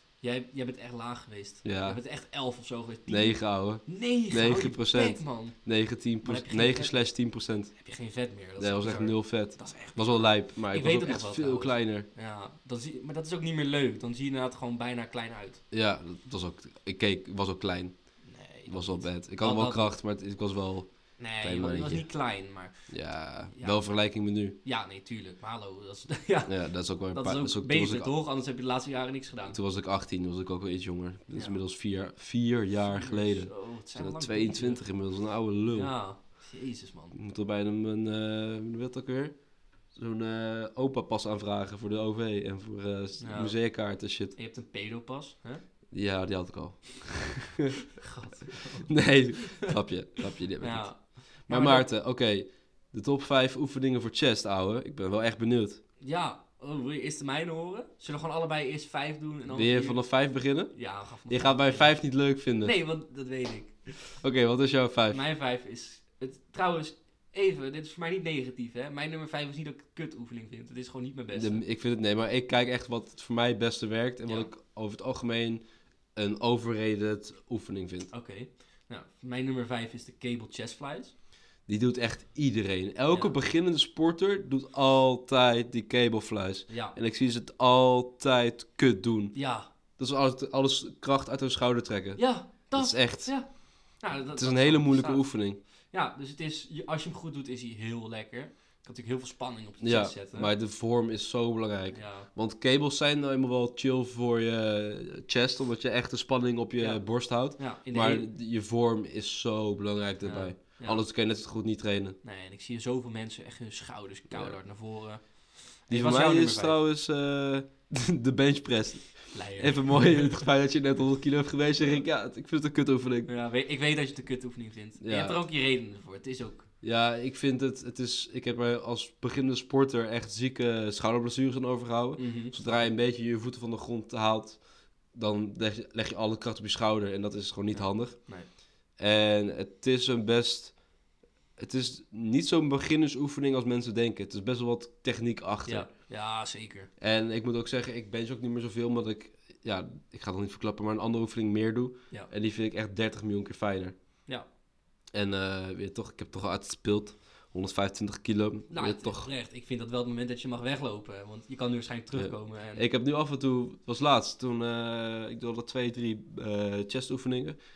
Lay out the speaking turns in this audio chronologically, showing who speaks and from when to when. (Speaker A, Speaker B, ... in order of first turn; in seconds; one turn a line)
Speaker A: 0.2-7.1
Speaker B: 1.6-2.0
Speaker B: 3.1-7.8
Speaker A: 7.7-15.6
Speaker B: 8.6-12.1
Speaker B: 15.7-22.3
Speaker A: 18.2-19.9
Speaker A: 21.2-29.6
Speaker B: 22.9-24.6
Speaker B: 26.5-28.1
Speaker B: 29.5-36.0
Speaker A: 31.3-31.6
Speaker A: 32.8-35.1
Speaker A: 35.7-37.1
Speaker B: 37.1-44.3
Speaker A: 43.2-43.7
Speaker A: 44.3-45.6
Speaker B: 45.9-47.6
Speaker A: 48.0-49.5
Speaker B: 48.9-55.8
Speaker A: 50.6-51.9
Speaker A: 56.0-60.0
Speaker B: 59.5-62.7
Speaker A: 60.7-62.0
Speaker A: 62.6-64.2
Speaker B: 64.2-65.2
Speaker A: 65.1-71.6
Speaker B: 71.3-75.6
Speaker A: 74.2-74.5
Speaker B: 76.1-78.1
Speaker A: 78.1-81.1
Speaker B: 81.7-89.4
Speaker A: 83.1-83.4
Speaker A: 86.7-87.0
Speaker A: 89.3-89.7
Speaker B: 89.9-93.4
Speaker A: 92.2-95.3
Speaker B: 94.3-95.6
Speaker A: 95.9-100.5
Speaker B: 99.8-112.2
Speaker A: 101.9-102.3
Speaker A: 106.8-108.3
Speaker A: 110.2-111.0
Speaker A: 112.2-116.8
Speaker B: 114.3-114.6
Speaker B: 115.9-123.3
Speaker A: 119.3-120.4
Speaker A: 123.2-126.7
Speaker B: 125.0-125.4
Speaker B: 126.8-138.3
Speaker A: 132.2-132.9
Speaker A: 137.7-138.5
Speaker B: 138.9-140.8
Speaker B: 141.6-145.9
Speaker A: 145.7-146.9
Speaker B: 147.0-153.9
Speaker B: 155.1-159.3
Speaker A: 158.7-162.8
Speaker B: 162.1-167.6